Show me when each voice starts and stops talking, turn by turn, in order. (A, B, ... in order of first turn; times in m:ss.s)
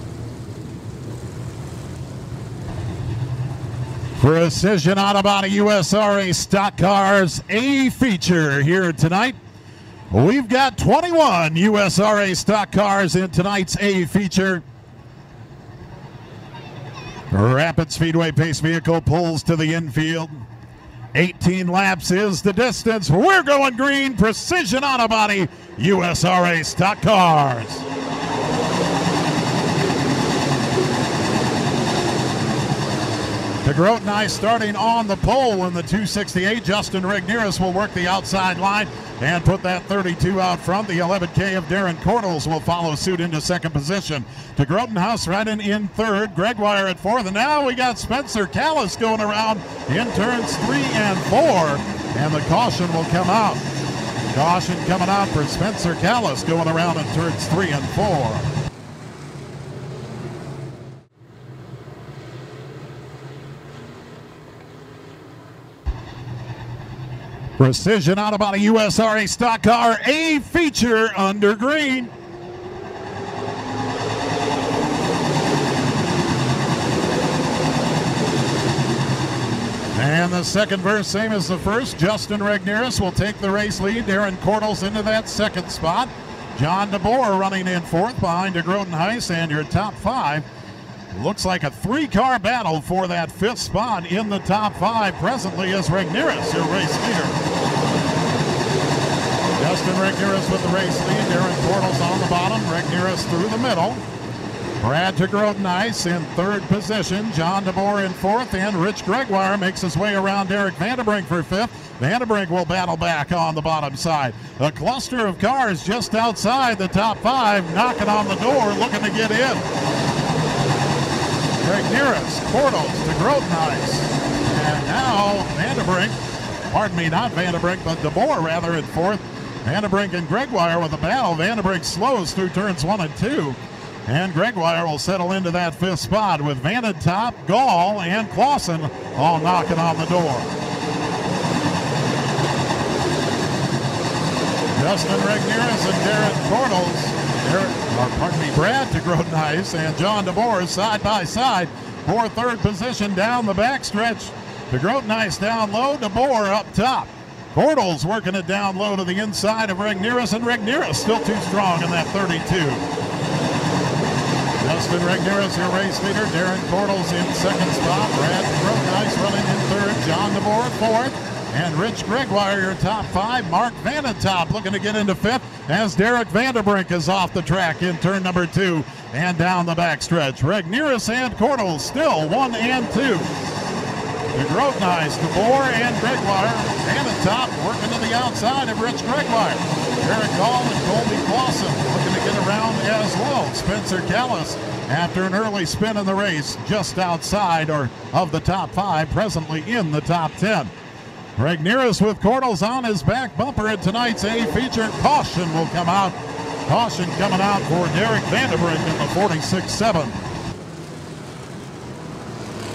0:04.2-0:09.4 A
0:10.1-0:14.6 A
0:17.3-0:20.4 A
0:21.1-0:27.8 A
0:33.6-0:53.6 A
0:54.3-0:58.5 A
1:07.6-1:12.1 A
1:19.9-1:30.4 A
1:31.1-1:37.4 A
1:39.6-1:44.0 A
1:44.8-1:59.7 A
2:01.6-2:06.2 A
2:06.7-2:20.5 A
2:24.7-2:42.8 A
2:44.6-3:03.3 A
3:04.3-3:20.7 A
3:21.4-3:30.2 A